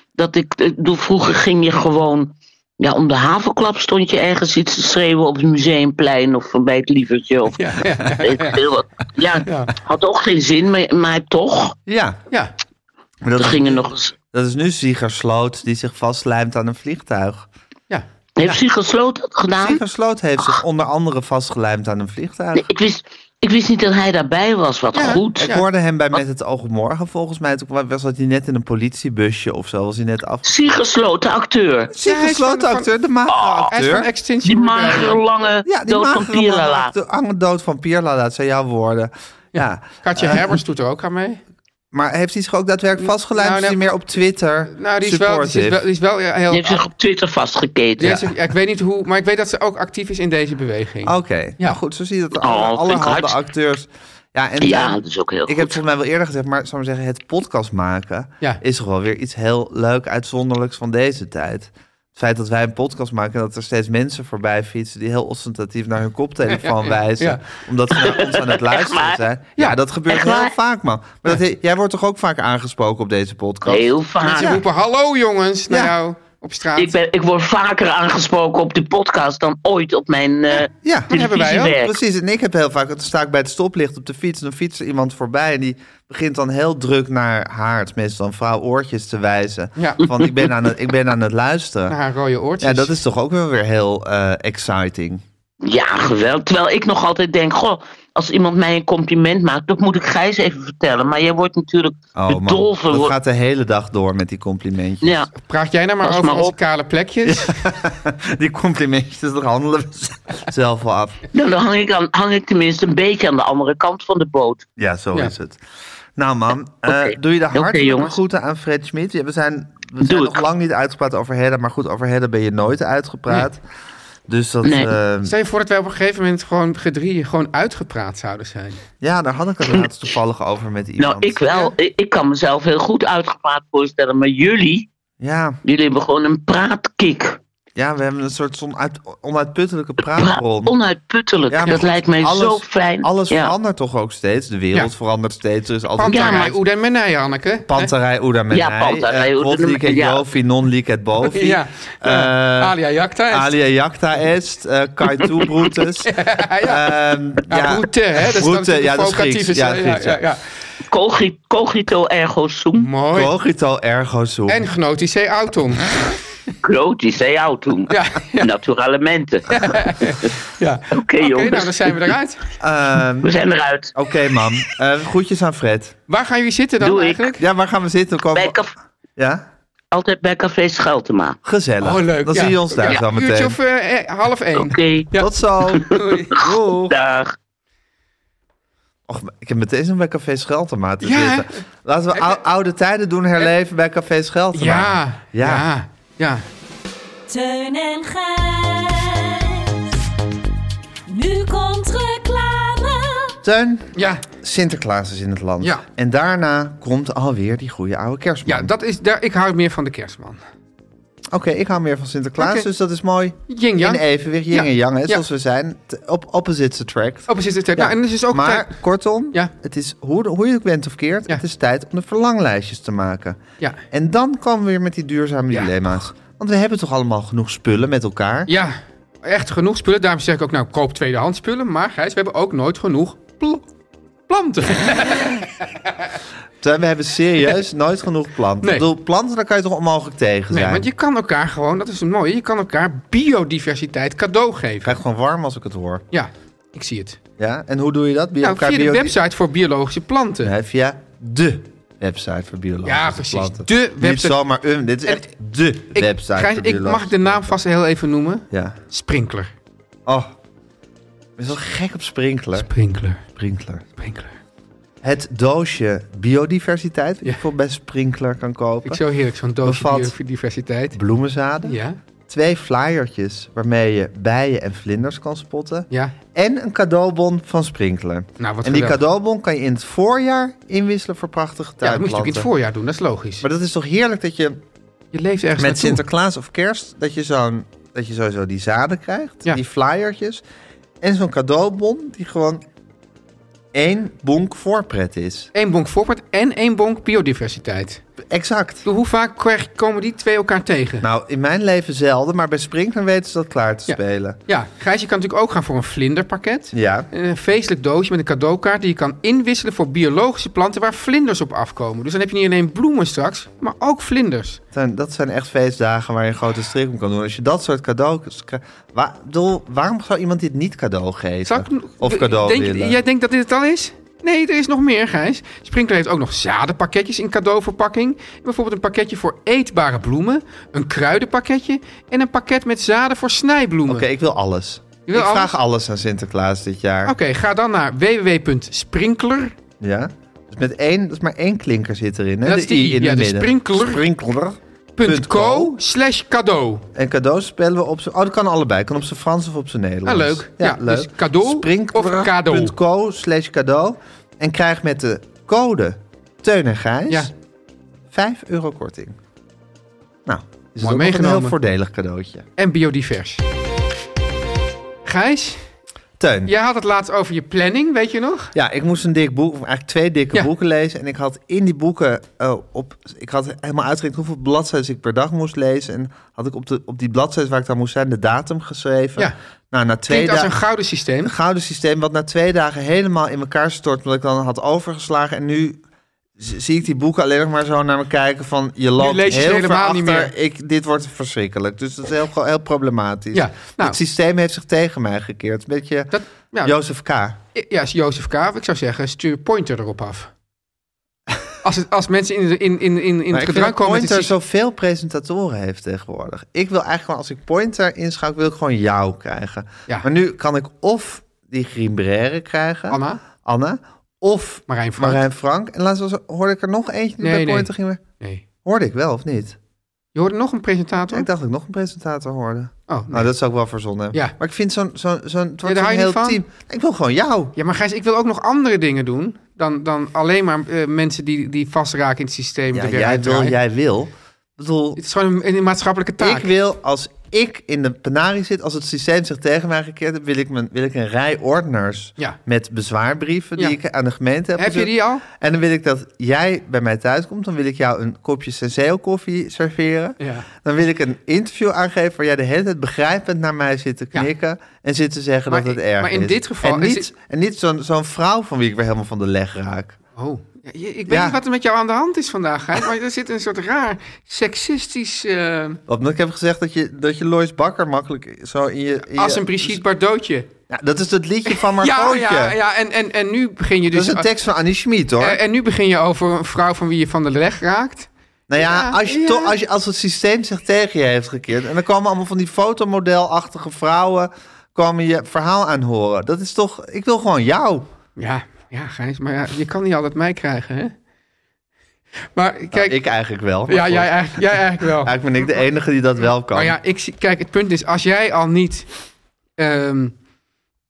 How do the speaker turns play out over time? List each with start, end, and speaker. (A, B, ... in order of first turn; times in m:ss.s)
0:00.2-0:11.8 A
0:07.6-0:08.6 B
0:09.4-0:09.7 B
0:11.9-0:12.2 C
0:13.2-0:17.5 C
0:13.4-0:14.1 A
0:17.9-0:18.6 B
0:18.4-0:19.8 A
0:19.6-0:22.7 C
0:22.6-0:25.5 A
0:24.9-0:25.6 B
0:25.0-0:30.6 C
0:30.4-0:31.9 A
0:31.9-0:34.1 C
0:32.0-0:32.9 B
0:33.3-0:33.7 A
0:33.7-0:35.2 B
0:34.4-0:36.9 A
0:35.6-0:40.6 C
0:39.5-0:41.4 B
0:41.9-0:45.8 C
0:43.0-0:43.9 B
0:44.7-0:46.8 B
0:46.5-0:48.2 A
0:48.0-0:51.8 B
0:51.0-1:14.6 C
0:52.4-0:53.3 A
0:54.6-0:55.8 A
1:06.5-1:07.4 B
1:08.0-1:09.2 A
1:10.1-1:10.5 A
1:13.6-1:14.6 A
1:14.2-1:17.0 B
1:16.8-1:22.0 A
1:20.8-1:32.0 C
1:21.1-1:21.8 B
1:31.9-1:33.0 B
1:32.6-1:35.2 C
1:35.6-1:43.1 A
1:42.2-1:45.2 C
1:45.0-1:45.3 A
1:45.4-1:47.6 B
1:46.0-1:46.6 A
1:47.2-1:51.2 C
1:51.3-1:54.6 A
1:54.8-1:55.6 C
1:56.2-2:03.6 C
1:56.9-1:58.2 A
2:00.0-2:00.4 A
2:04.3-2:05.3 C
2:04.6-2:04.9 A
2:05.2-2:08.8 B
2:09.0-2:11.4 C
2:11.0-2:14.9 A
2:15.2-2:15.6 C
2:15.6-2:17.4 A
2:17.8-2:20.7 C
2:20.1-2:23.5 A
2:21.5-2:26.6 C
2:26.0-2:27.9 B
2:26.0-2:26.6 A
2:27.7-2:32.8 C
2:28.5-2:30.2 A
2:31.2-2:33.5 B
2:33.3-2:40.2 C
2:36.0-2:36.9 B
2:37.4-2:40.4 B
2:40.9-2:42.9 A
2:42.8-2:43.3 B
2:43.1-2:44.7 C
2:44.5-2:46.1 B
2:46.6-2:50.3 A
2:47.9-2:48.5 B
2:49.5-2:52.4 B
2:50.9-2:52.1 A
2:52.6-2:53.3 C
2:53.2-2:53.9 A
2:54.0-2:56.0 C
2:56.1-2:57.4 B
2:56.8-2:57.4 A
2:57.4-2:58.6 C
2:58.3-2:58.7 A
2:59.2-2:59.4 C
2:59.9-3:01.4 A
3:01.4-3:03.6 C
3:01.8-3:05.3 B
3:04.6-3:05.1 A
3:05.2-3:06.9 C
3:05.7-3:07.3 A
3:05.9-3:06.4 B
3:09.1-3:15.6 C
3:11.0-3:11.6 B
3:12.1-3:12.4 B
3:14.5-3:16.4 B
3:17.3-3:20.0 D
3:21.1-3:23.4 D
3:23.4-3:28.7 C
3:24.0-3:24.2 B
3:28.4-3:30.4 B
3:31.3-3:43.4 C
3:32.4-3:32.7 B
3:33.5-3:35.2 B
3:37.3-3:38.8 B
3:43.9-3:48.5 C
3:48.5-3:53.6 B
3:54.3-3:56.0 B
3:56.6-4:00.9 C
3:58.6-3:58.9 B
4:00.5-4:05.0 B
4:04.8-4:06.0 C
4:06.1-4:07.2 B
4:07.4-4:09.2 C
4:08.4-4:10.5 B
4:10.4-4:17.6 C
4:12.8-4:14.4 B
4:15.9-4:19.5 B
4:18.5-4:18.8 C
4:20.0-4:20.3 C
4:21.4-4:22.7 C
4:22.6-4:23.2 B
4:23.3-4:23.9 C
4:24.0-4:24.3 B
4:25.0-4:29.0 C
4:28.8-4:31.0 B
4:29.6-4:30.1 C
4:30.9-4:42.5 C
4:31.6-4:32.0 B
4:38.4-4:39.0 B
4:41.8-4:43.4 B
4:43.4-4:44.6 C
4:45.1-4:46.0 B
4:45.6-4:50.4 C
4:51.0-4:52.6 C
4:53.7-4:55.5 C
4:55.5-4:58.0 B
4:58.2-4:58.9 C
4:58.8-5:01.0 B
5:01.0-5:04.4 C
5:03.9-5:14.6 B
5:06.7-5:07.1 C
5:14.7-5:23.0 C
5:21.4-5:34.1 B
5:33.9-5:37.2 C
5:35.0-5:35.6 B
5:37.0-5:39.6 B
5:39.8-5:45.8 C
5:42.4-5:44.1 B
5:45.0-5:46.9 B
5:46.9-5:57.3 C
5:50.0-5:52.8 B
5:58.1-5:59.2 C
6:00.3-6:02.4 C
6:00.8-6:01.6 B
6:02.6-6:03.4 B
6:05.0-6:05.7 B
6:06.2-6:06.5 C
6:06.5-6:08.5 B
6:08.5-6:20.5 C
6:20.1-6:21.3 B
6:21.2-6:25.8 C
6:26.4-6:37.4 C
6:29.0-6:30.3 B
6:33.3-6:34.0 B
6:36.1-6:36.8 B
6:37.5-6:40.3 B
6:41.6-6:44.3 B
6:43.3-6:58.0 C
6:52.9-6:53.2 B
6:54.7-6:55.2 B
6:57.2-6:58.4 B
6:58.6-6:59.6 C
7:00.1-7:01.3 B
7:01.1-7:07.5 C
7:02.9-7:03.3 B
7:05.6-7:06.4 B
7:07.6-7:13.6 B
7:12.7-7:15.0 C
7:15.0-7:16.5 B
7:16.2-7:40.0 C
7:24.6-7:25.2 B
7:30.2-7:30.5 B
7:35.5-7:37.1 B
7:40.2-7:45.8 B
7:41.1-7:41.4 C
7:45.9-7:49.8 C
7:49.1-7:50.5 B
7:50.7-7:52.6 C
7:51.5-7:54.3 B
7:53.9-7:55.4 C
7:55.2-7:59.6 B
7:58.5-8:07.9 C
8:08.2-8:10.9 B
8:12.3-8:13.0 B
8:12.7-8:16.7 C
8:13.7-8:15.2 B
8:16.5-8:18.9 B
8:19.6-8:20.1 B